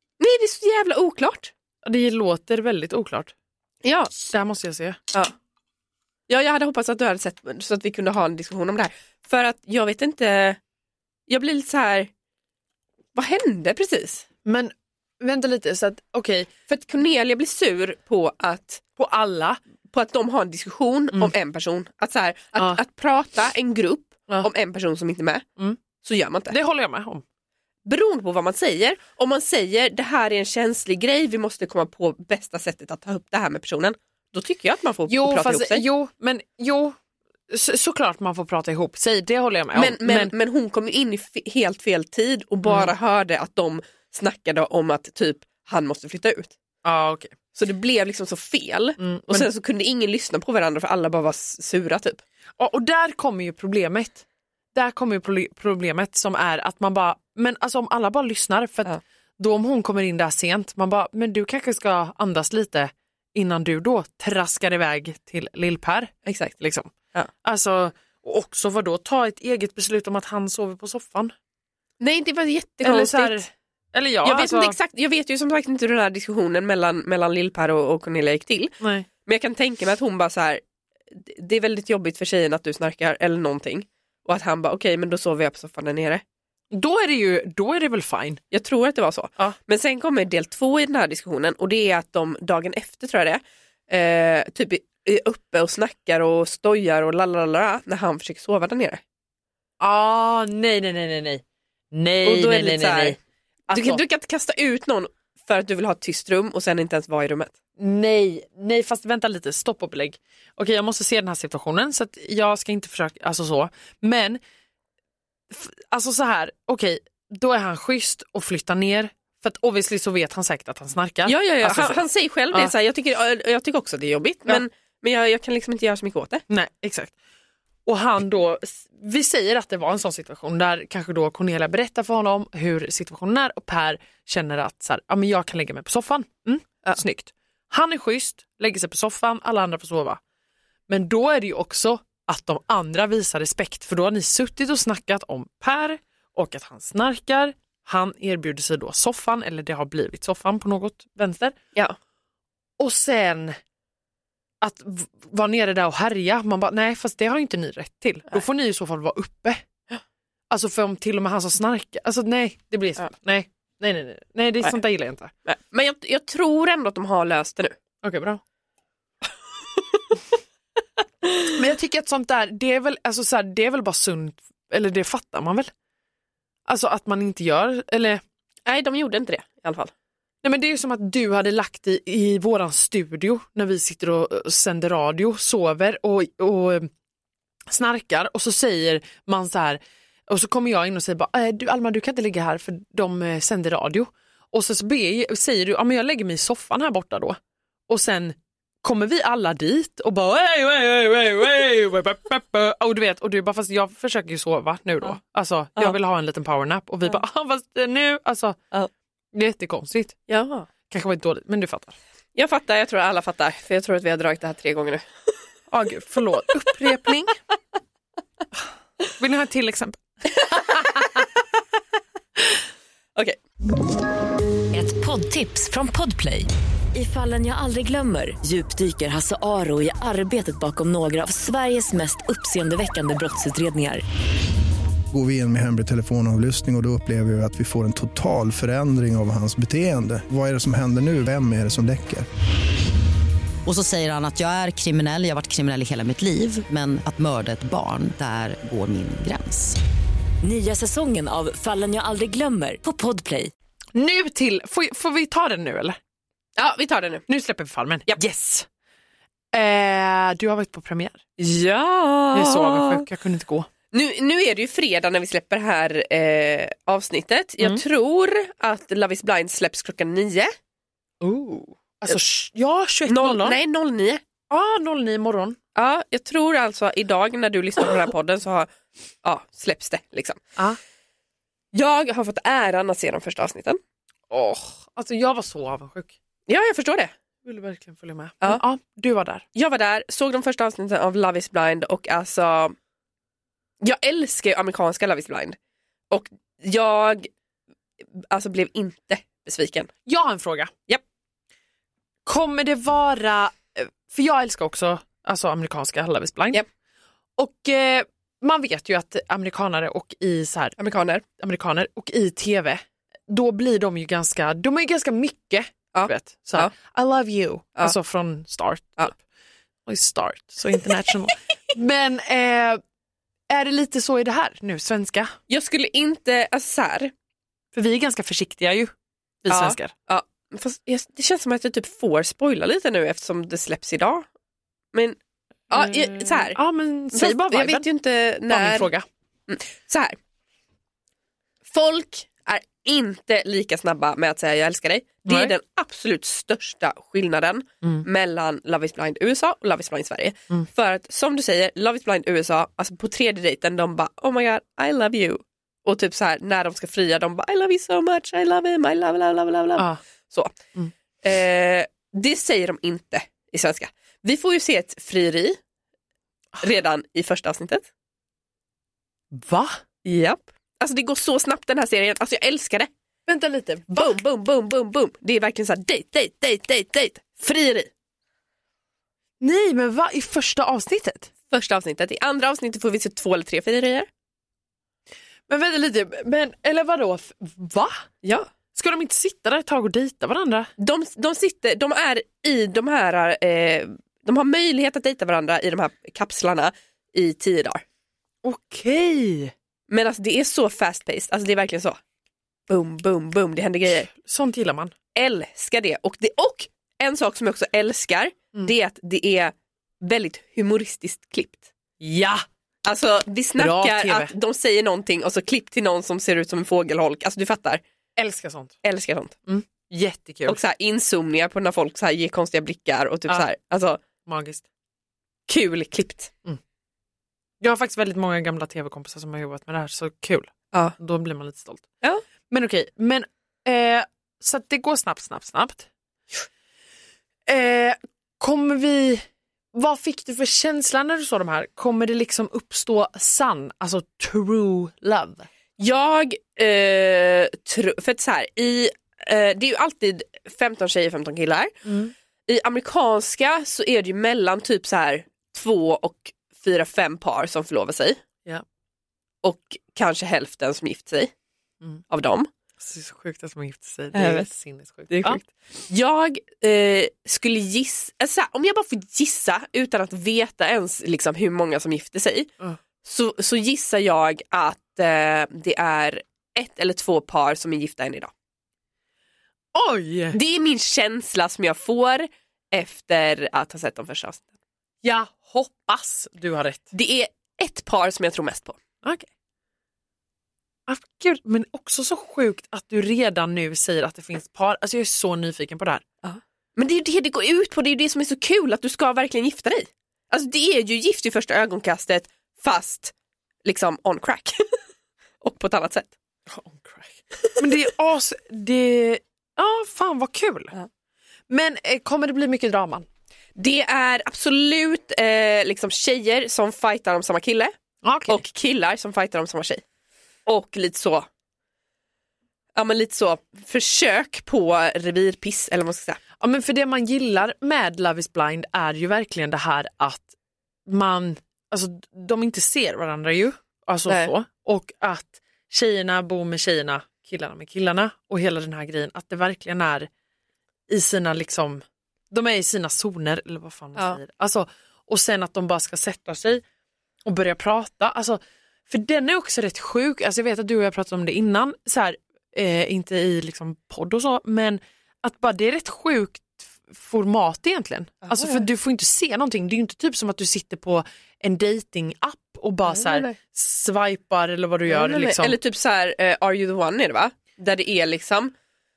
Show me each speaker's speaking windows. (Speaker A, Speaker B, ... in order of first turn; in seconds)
Speaker A: 0.2-1.5, 3.8-4.1, 6.3-10.6, 11.3-12.1, 13.1-14.2, 16.7-18.8, 19.9-25.4, 26.0-26.6, 27.8-35.8, 39.7-46.5, 47.5-52.2, 66.2-66.5, 72.0-73.4, 74.2-78.7, 79.2-86.2, 88.5-99.0, 102.2-103.2, 103.7-107.5, 121.2-126.4, 165.4-167.8, 178.6-179.9, 210.3-210.7, 212.3-215.1, 220.5-221.0, 256.6-257.2, 261.4-263.0, 263.9-270.5, 273.1-274.2, 275.7-278.7, 279.2-280.4, 281.7-283.8, 286.5-287.1, 289.5-292.8, 293.8-295.6, 296.1-297.3, 298.2-299.9, 310.8-311.2, 315.9-316.7, 325.5-327.1, 329.5-334.3, 334.9-335.2, 335.7-336.6, 337.1-338.9, 339.5-340.2, 341.6-360.6, 361.2-365.6, 366.6-367.9, 370.0-372.9, 373.9-377.9, 381.5-384.1, 388.2-388.5, 390.8-397.8, 399.9-402.0, 402.7-404.1, 405.1-411.7, 412.8-417.8, 418.8-419.3, 420.4-424.0, 425.5-426.3, 445.8-451.9, 452.5-458.2, 459.4-461.3, 462.1-462.5, 464.1-464.5, 465.1-472.5, 473.0-478.3, 480.3-484.5, 486.9-488.8, 496.2-503.1, 503.6-504.7, 505.4-506.1, 513.5-517.7, 518.3-519.8, 520.5-521.3, 522.7-526.2, 558.3-558.6, 562.9-563.4, 564.9-568.5
Speaker B: 1.8-3.3, 4.2-5.0, 14.4-16.5, 19.0-19.6, 26.5-27.2, 35.1-37.0, 37.5-40.3, 42.6-42.9, 46.8-47.3, 49.0-49.5, 52.6-66.9, 67.4-71.3, 72.8-74.8, 78.8-79.1, 86.7-88.4, 99.8-103.2, 103.7-104.0, 107.8-114.4, 115.5-122.7, 126.5-127.1, 127.8-140.2, 140.9-151.6, 152.8-153.6, 154.6-159.6, 160.5-165.3, 168.0-168.4, 171.5-175.7, 176.7-178.2, 180.4-186.9, 187.7-208.6, 209.3-210.2, 210.9-212.0, 215.7-217.3, 219.1-221.2, 253.9-256.0, 257.3-258.7, 259.5-261.2, 262.3-263.7, 271.2-273.6, 274.5-275.6, 284.3-286.1, 287.4-289.4, 300.0-300.7, 302.2-306.6, 307.4-310.8, 311.4-319.2, 319.9-322.8, 323.5-325.4, 327.7-328.9, 329.4-329.9, 335.7-337.9, 338.5-339.1, 345.3-345.5, 369.3-369.8, 373.3-374.1, 379.4-381.3, 385.5-388.0, 388.7-390.7, 398.4-399.5, 404.1-404.9, 412.0-412.4, 413.6-414.3, 418.2-418.8, 419.4-420.6, 424.2-424.6, 427.6-431.9, 432.5-435.9, 437.5-445.5, 451.8-452.1, 462.8-465.4, 479.7-480.4, 485.0-486.9, 489.0-489.3, 490.9-496.0, 506.5-510.7, 511.5-513.1, 518.0-518.4, 526.4-530.3, 530.9-540.1, 540.9-546.6, 547.2-565.6
Speaker C: 224.7-234.0, 250.4-253.5
Speaker D: 235.1-242.2
Speaker E: 243.6-249.8